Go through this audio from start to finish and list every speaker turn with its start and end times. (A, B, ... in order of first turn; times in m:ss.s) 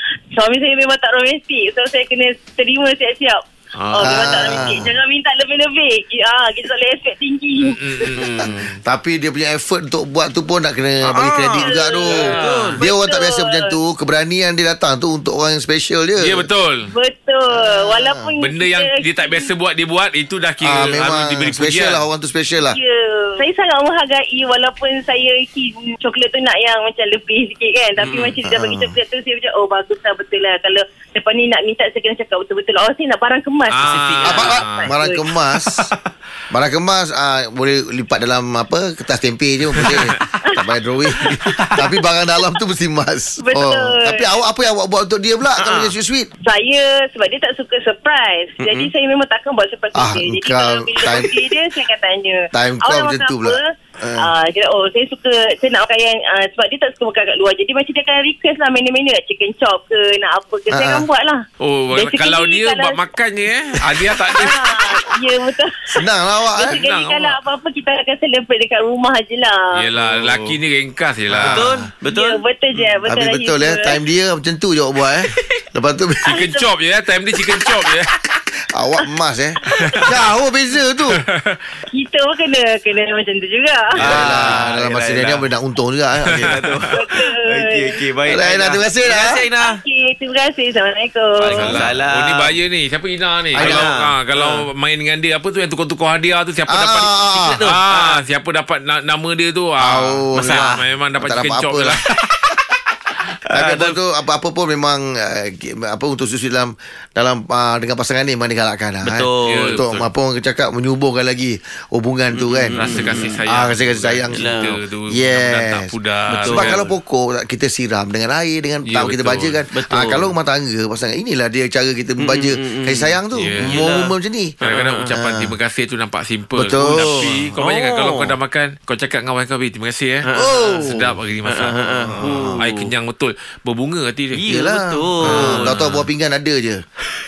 0:00.3-0:08.1 A
0:03.8-0:04.8 B
0:04.0-0:04.9 C
0:07.6-0:08.8 B
0:08.2-0:16.5 C
0:11.0-0:12.8 D
0:11.6-0:12.2 A
0:12.1-0:12.8 B
0:12.8-0:13.8 A
0:16.2-0:16.9 B
0:16.9-0:19.5 A
0:17.6-0:18.3 C
0:18.4-0:22.0 B
0:20.6-0:22.8 C
0:22.7-0:35.0 A
0:28.0-0:28.4 D
0:28.4-0:29.0 C
0:33.7-0:34.9 B
0:33.8-0:34.6 D
0:34.3-0:35.9 C
0:35.7-0:36.0 D
0:36.5-0:46.3 C
0:39.8-0:40.1 B
0:41.3-0:41.8 D
0:43.4-0:44.4 A
0:45.6-0:45.9 D
0:46.4-1:03.0 A
0:48.6-0:48.9 D
0:50.0-0:51.5 C
0:52.5-0:54.3 C
1:00.7-1:01.1 C
1:01.6-1:05.0 B
1:04.3-1:09.8 A
1:05.9-1:06.8 C
1:06.6-1:07.4 B
1:09.8-1:11.9 B
1:10.0-1:10.6 D
1:11.3-1:11.7 C
1:11.4-1:12.4 D
1:12.1-1:14.0 A
1:13.0-1:16.5 C
1:16.3-1:18.1 B
1:16.3-1:16.7 A
1:18.7-1:21.2 C
1:19.7-1:20.0 D
1:19.8-1:20.1 B
1:21.2-1:21.6 B
1:21.9-1:24.0 A
1:24.0-1:26.8 C
1:24.0-1:25.5 D
1:24.0-1:24.7 B
1:26.3-1:29.8 D
1:26.3-1:26.8 B
1:26.9-1:28.0 A
1:28.3-1:29.4 C
1:29.6-1:31.8 A
1:31.4-1:42.2 B
1:31.5-1:32.6 D
1:33.6-1:33.9 C
1:33.6-1:34.6 D
1:36.7-1:37.6 C
1:37.3-1:38.2 D
1:39.8-1:42.0 C
1:43.5-1:44.0 D
1:43.5-1:54.4 C
1:49.0-1:49.8 D
1:49.5-1:50.1 B
1:52.4-1:53.4 D
1:52.8-1:56.8 B
1:54.3-1:54.8 D
1:55.1-1:55.9 C
1:56.3-1:57.0 D
1:56.5-2:04.6 C
1:58.9-1:59.6 B
1:59.7-2:00.3 D
2:02.2-2:05.1 D
2:03.4-2:04.0 B
2:04.6-2:10.3 B
2:05.1-2:05.5 C
2:06.6-2:07.5 C
2:06.8-2:08.4 D
2:10.2-2:10.9 D
2:10.3-2:11.2 C
2:10.8-2:14.4 B
2:11.4-2:12.9 D
2:12.1-2:12.6 C
2:14.3-2:15.8 D
2:14.4-2:16.8 C
2:15.2-2:16.1 B